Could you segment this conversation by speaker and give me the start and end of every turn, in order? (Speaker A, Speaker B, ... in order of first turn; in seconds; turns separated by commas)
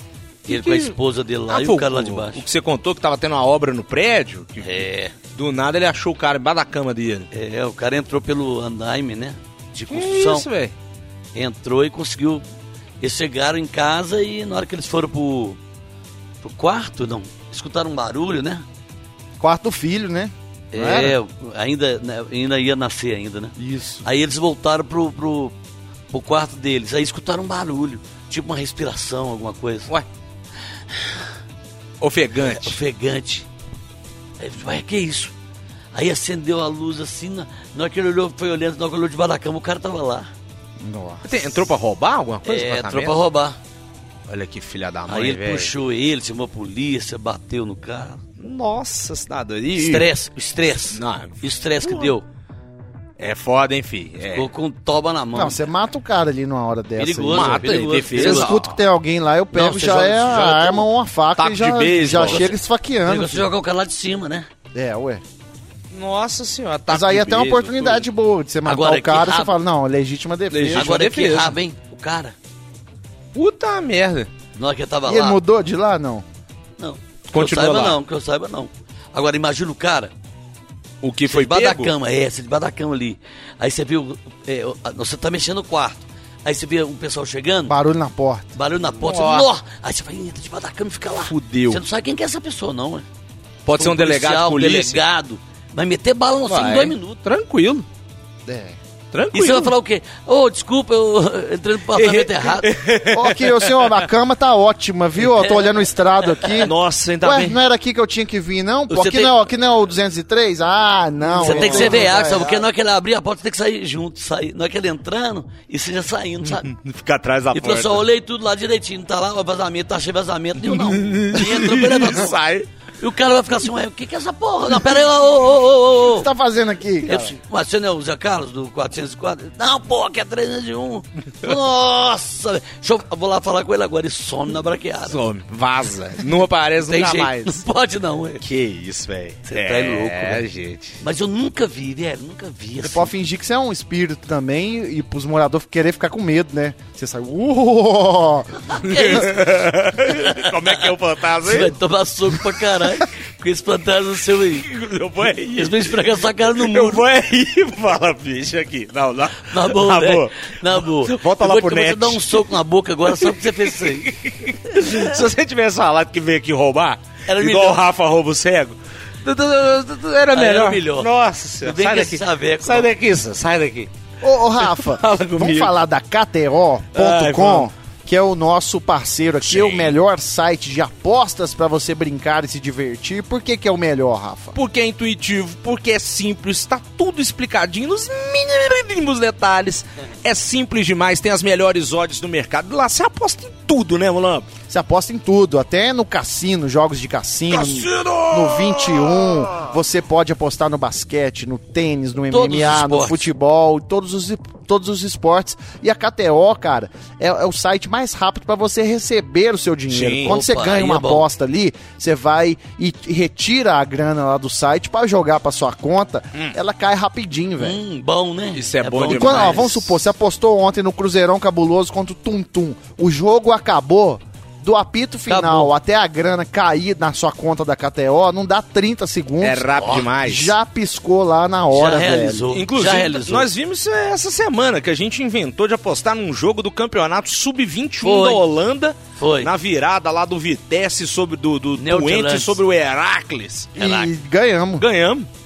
Speaker A: 0.5-0.9, Speaker B: 0.5-2.4, Speaker A: 1.5-7.3, Speaker B: 4.6-5.2, Speaker B: 7.3-10.5, Speaker A: 9.9-10.7, Speaker B: 11.3-12.4, Speaker B: 13.0-15.6, Speaker B: 16.4-18.6, Speaker C: 19.4-21.1, Speaker B: 20.7-25.5, Speaker C: 23.6-24.0, Speaker B: 26.1-29.9, Speaker B: 30.9-31.3, Speaker A: 32.0-32.8, Speaker B: 32.4-33.5, Speaker B: 34.4-35.3, Speaker B: 35.9-40.3, Speaker C: 40.8-41.2, Speaker A: 41.2-43.2, Speaker B: 42.4-43.6, Speaker A: 44.3-45.7, Speaker B: 45.1-48.2, Speaker A: 48.4-50.1, Speaker B: 49.7-52.2, Speaker A: 50.9-52.1, Speaker A: 53.2-54.5, Speaker B: 54.2-55.6, Speaker C: 55.3-63.5, Speaker B: 57.0-58.6, Speaker A: 57.3-58.7, Speaker B: 59.5-60.8, Speaker A: 61.4-62.5, Speaker B: 62.2-62.5, Speaker B: 63.0-64.5, Speaker C: 64.7-65.2, Speaker A: 65.9-68.0, Speaker C: 66.9-70.9, Speaker B: 68.6-69.5, Speaker A: 70.5-71.6, Speaker B: 70.7-72.3, Speaker A: 73.3-74.3, Speaker B: 74.5-75.4, Speaker C: 75.0-76.2, Speaker B: 76.8-80.1, Speaker A: 77.3-78.0, Speaker A: 81.0-81.9, Speaker B: 81.2-87.8, Speaker C: 87.7-88.5, Speaker B: 88.5-93.0, Speaker A: 89.0-89.5, Speaker A: 91.2-91.8, Speaker A: 93.6-95.0, Speaker B: 93.8-97.2, Speaker A: 96.5-97.8, Speaker C: 98.5-98.8, Speaker A: 99.1-99.7, Speaker B: 99.3-102.7, Speaker A: 101.9-104.0, Speaker C: 103.1-112.7, Speaker A: 106.5-107.6, Speaker B: 108.9-109.3, Speaker A: 111.3-112.2, Speaker B: 111.4-116.7, Speaker A: 116.6-118.0, Speaker B: 117.5-122.3, Speaker A: 120.7-122.7, Speaker B: 123.0-126.3, Speaker C: 126.1-127.3, Speaker B: 127.0-135.2, Speaker A: 135.1-137.6, Speaker B: 136.8-138.4, Speaker A: 138.4-141.0, Speaker B: 139.4-140.4, Speaker B: 141.0-143.1, Speaker C: 142.8-148.6, Speaker B: 148.7-150.8, Speaker A: 148.8-151.7, Speaker B: 151.4-154.7, Speaker A: 154.5-162.4, Speaker B: 155.5-157.0, Speaker B: 159.5-164.2, Speaker A: 163.1-173.9, Speaker B: 164.7-165.0, Speaker B: 167.3-167.8, Speaker B: 170.3-171.1, Speaker B: 171.6-172.9, Speaker C: 174.2-184.6, Speaker A: 174.6-175.7, Speaker A: 176.9-177.7, Speaker A: 179.4-179.9, Speaker A: 184.5-194.5, Speaker C: 194.7-217.8, Speaker A: 197.5-199.6, Speaker B: 202.3-203.2, Speaker A: 209.9-210.3, Speaker B: 210.2-211.3, Speaker B: 217.6-219.7, Speaker A: 218.5-220.0, Speaker C: 219.1-232.4, Speaker B: 225.3-225.7, Speaker A: 229.4-230.5, Speaker B: 229.8-230.0, Speaker B: 231.7-233.5, Speaker A: 232.5-243.7, Speaker B: 238.0-238.4, Speaker B: 239.2-239.5, Speaker B: 241.8-242.6, Speaker B: 243.8-244.1, Speaker C: 243.8-244.8, Speaker A: 244.8-245.3